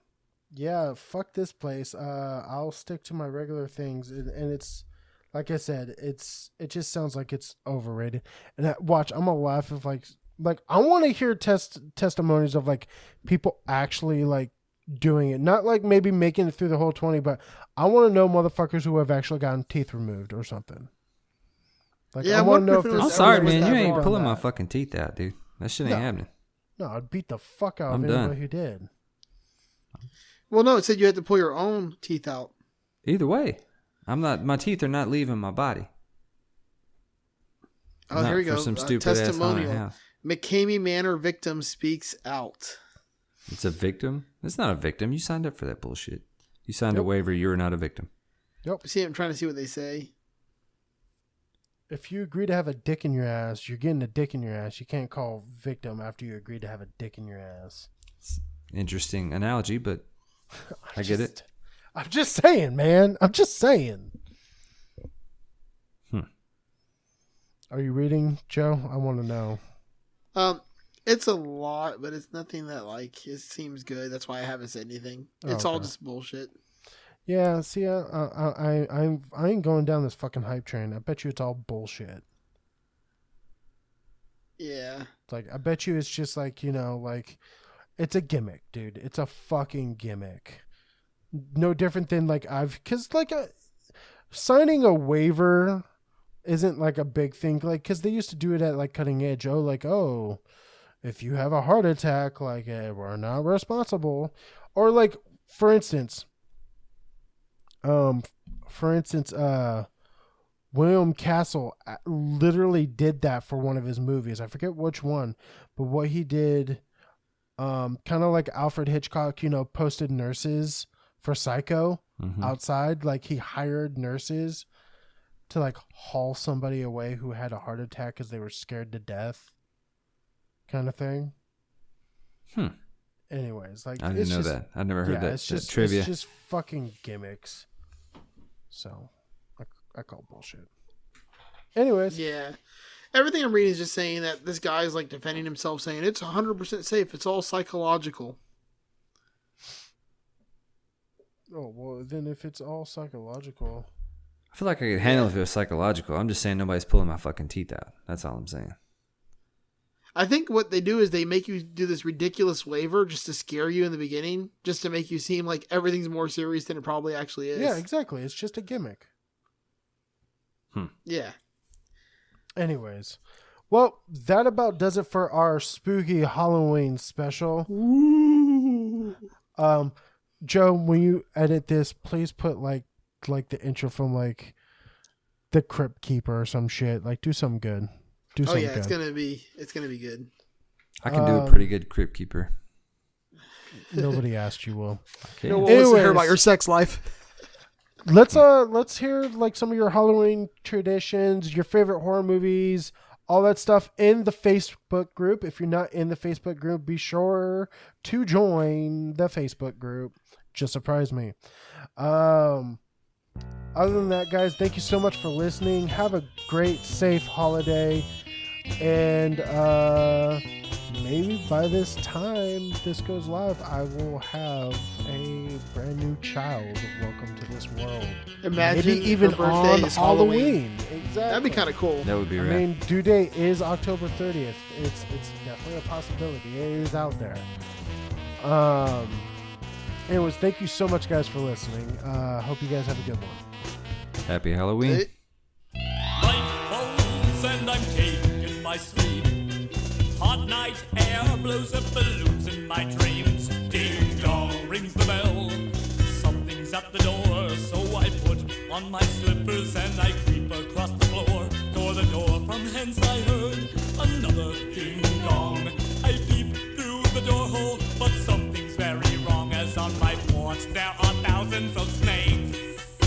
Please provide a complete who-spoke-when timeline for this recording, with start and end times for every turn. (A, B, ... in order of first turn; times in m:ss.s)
0:00.5-0:20.9 A
0:22.1-0:24.4 A
0:22.2-0:24.1 B
0:23.0-0:26.3 C
0:26.8-0:28.9 A
0:27.9-0:28.4 C
0:30.5-0:32.5 B
0:33.0-0:35.9 C
0:38.1-0:42.8 B
0:38.1-0:39.9 C
0:43.5-0:48.1 C
0:48.8-0:50.1 B
0:51.9-0:57.9 A
0:58.2-1:00.0 C
1:00.6-1:04.1 A
1:01.0-1:01.3 C
1:07.7-1:09.6 A
1:10.3-1:16.5 B
1:15.4-1:15.9 A
1:17.2-1:22.2 A
1:24.6-1:25.1 B
1:25.3-1:27.4 A
1:28.0-1:30.6 A
1:31.3-1:33.5 A
1:34.3-1:35.8 A
1:36.4-1:40.4 A
1:41.0-1:46.3 A
1:47.8-1:49.9 A
1:50.7-1:56.8 A
1:57.6-2:04.6 A
2:02.2-2:02.5 C
2:05.5-2:09.5 A
2:10.7-2:11.3 A
2:13.3-2:17.6 A
2:14.0-2:16.1 C
2:18.7-2:20.7 A
2:21.7-2:22.2 A
2:22.1-2:22.6 B
2:23.1-2:28.4 B
2:31.5-2:33.9 A
2:34.5-2:38.8 C
2:35.0-2:35.3 B
2:40.2-2:47.8 B
2:47.5-2:49.1 A
2:51.0-2:51.3 B
2:52.6-2:53.2 A
2:53.7-2:57.7 A
2:57.9-2:58.7 B
2:59.6-3:04.6 A
3:05.5-3:08.9 A
3:08.4-3:10.3 B
3:11.0-3:12.5 C
3:11.1-3:11.7 A
3:13.9-3:15.0 A
3:15.4-3:15.8 C
3:15.5-3:17.0 B
3:15.6-3:16.4 A
3:18.0-3:31.3 A
3:32.0-3:32.8 A
3:33.7-3:38.1 A
3:38.8-3:51.7 A
3:48.4-3:50.6 B
3:51.3-3:52.1 B
3:52.0-3:52.7 C
3:52.4-3:57.5 A
3:58.4-3:59.3 A
4:00.1-4:03.4 A
4:04.2-4:05.1 C
4:04.8-4:05.1 B
4:06.2-4:09.4 D
4:10.1-4:32.6 D